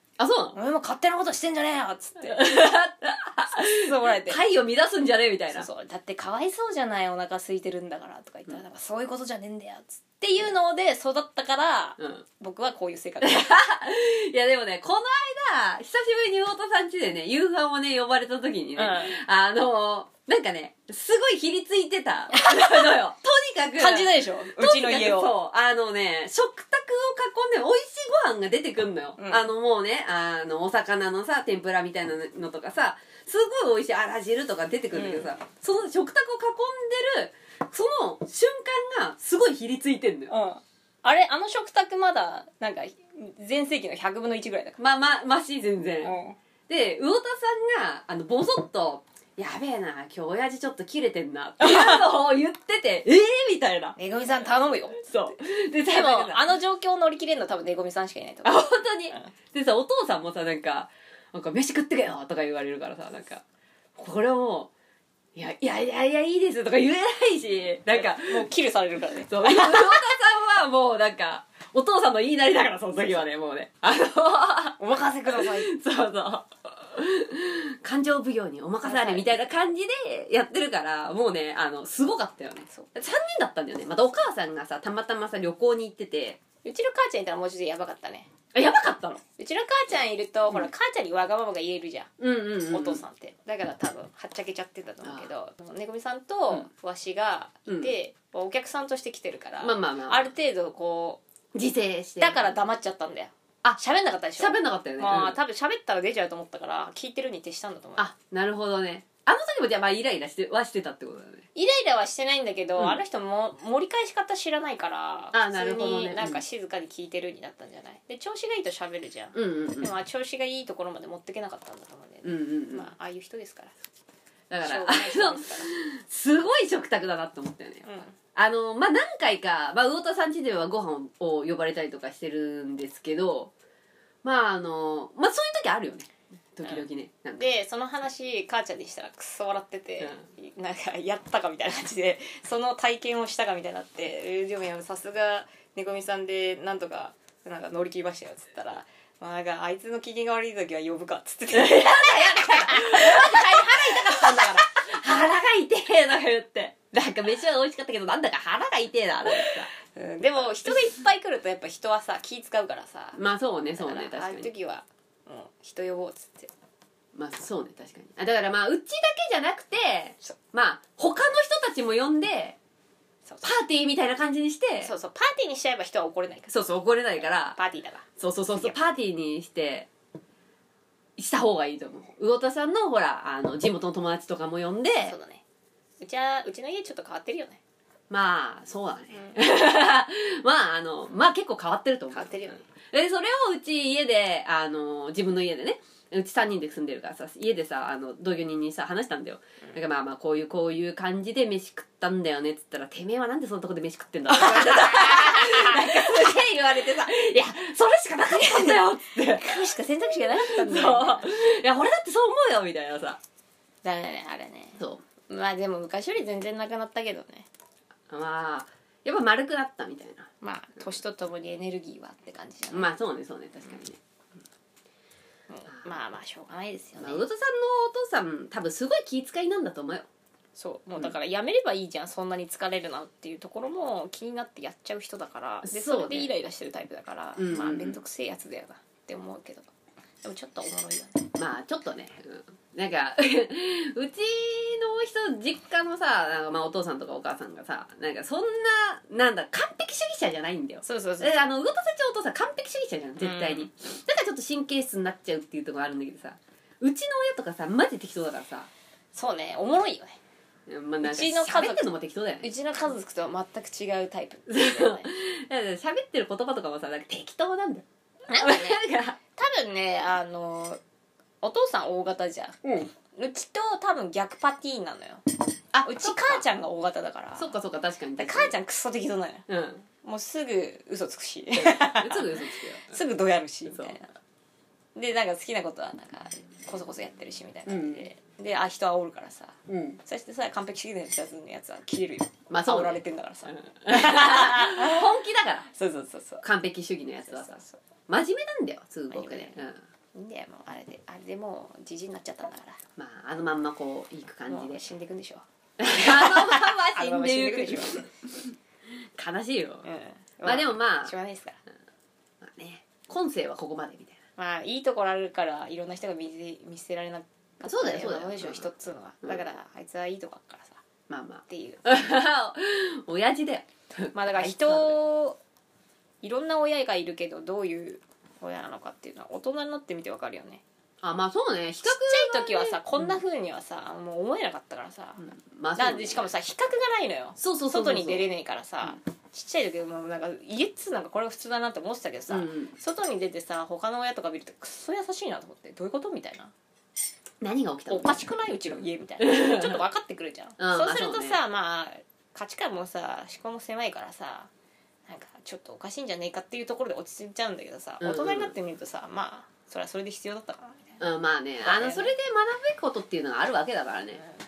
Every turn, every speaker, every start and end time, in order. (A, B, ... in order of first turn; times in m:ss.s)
0:00.2-0:00.6 A
0:00.5-0:02.4 B
0:02.2-0:05.7 A
0:03.5-0:04.4 B
0:05.5-0:13.6 B
0:12.0-0:12.2 A
0:13.2-0:40.3 A
0:18.8-0:19.2 B
0:22.3-0:22.9 B
0:23.8-0:25.3 B
0:29.2-0:29.4 B
0:34.9-0:35.3 B
0:40.3-0:44.8 B
0:44.8-0:46.2 A
0:46.0-0:46.4 B
0:46.7-0:54.0 A
0:51.6-0:52.0 B
0:54.0-0:55.1 B
0:55.0-0:56.4 A
0:55.9-0:59.3 B
0:58.4-1:03.4 A
1:04.0-1:04.7 A
1:05.3-1:08.5 A
1:07.9-1:10.0 B
1:09.3-1:26.4 A
1:14.8-1:15.7 B
1:18.8-1:19.4 B
1:26.6-1:28.3 B
1:28.5-1:29.2 A
1:29.4-1:32.1 B
1:32.2-1:33.0 A
1:32.6-1:41.2 B
1:35.0-1:35.3 A
1:37.7-1:37.9 A
1:39.6-1:40.3 A
1:41.5-1:42.5 A
1:42.2-1:48.1 B
1:44.4-1:45.4 A
1:48.0-1:51.4 A
1:51.5-2:03.7 B
1:55.3-1:56.4 A
1:59.3-1:59.9 A
2:02.2-2:02.9 A
2:04.5-2:13.5 A
2:04.6-2:05.7 B
2:07.8-2:08.2 B
2:14.2-2:17.4 A
2:17.4-2:34.6 B
2:31.5-2:39.7 A
2:39.4-2:43.2 B
2:43.2-2:44.5 A
2:43.8-2:46.5 B
2:47.1-2:52.6 A
2:53.3-2:53.5 B
2:53.4-2:54.9 A
2:54.8-2:56.5 B
2:56.5-2:57.6 A
2:57.2-2:58.9 B
2:58.2-2:59.9 A
3:01.2-3:05.2 A
3:05.0-3:05.4 B
3:06.0-3:07.6 B
3:08.1-3:33.2 A
3:09.1-3:09.4 B
3:12.1-3:12.6 B
3:24.3-3:26.3 B
3:28.3-3:31.3 B
3:33.8-3:37.5 B
3:38.1-3:40.3 A
3:40.4-3:42.9 B
3:42.7-3:44.0 A
3:45.5-3:47.2 B
3:47.0-3:50.1 A
3:50.6-3:59.7 B
3:55.6-3:56.3 A
3:57.4-3:58.0 A
4:00.2-4:01.3 B
4:01.4-4:18.7 A
4:10.8-4:11.5 B
4:13.2-4:13.7 B
4:19.1-4:20.2 B
4:20.7-4:22.5 A
4:21.0-4:21.9 B
4:22.4-4:25.1 B
4:24.5-4:29.2 A
4:28.3-4:30.8 B
4:31.4-4:32.6 B
4:32.6-4:32.9 A
4:33.1-4:37.5 B
4:35.7-4:36.4 A
4:37.4-4:38.5 A
4:38.2-4:39.4 B
4:39.5-4:39.8 A
4:40.0-4:44.1 B
4:41.5-4:43.0 A
4:43.7-4:44.0 A
4:44.9-4:55.2 B
4:47.7-4:48.1 A
4:49.7-4:50.0 A
4:52.5-4:55.7 A
4:55.7-4:56.4 B
4:56.4-4:59.8 A
4:57.2-4:57.8 B
4:59.1-4:59.6 B
5:00.1-5:02.8 B
5:03.0-5:04.8 A
5:04.5-5:08.1 B
5:05.8-5:09.8 A
5:09.8-5:11.6 B
5:10.4-5:11.1 A
5:12.4-5:14.2 A
5:14.4-5:20.8 B
5:17.6-5:18.7 A
5:21.1-5:25.0 A
5:21.5-5:22.0 B
5:24.1-5:25.4 B
5:26.2-5:30.6 B
5:31.0-5:33.2 A
5:31.8-5:46.5 B
5:35.2-5:36.3 A
5:37.4-5:38.2 A
5:42.3-5:42.7 A
5:47.4-5:49.8 A
5:47.9-5:54.5 B
5:50.6-5:51.4 A
5:55.1-6:01.0 B
5:58.0-5:58.5 A
6:01.0-6:04.2 A
6:01.6-6:02.1 B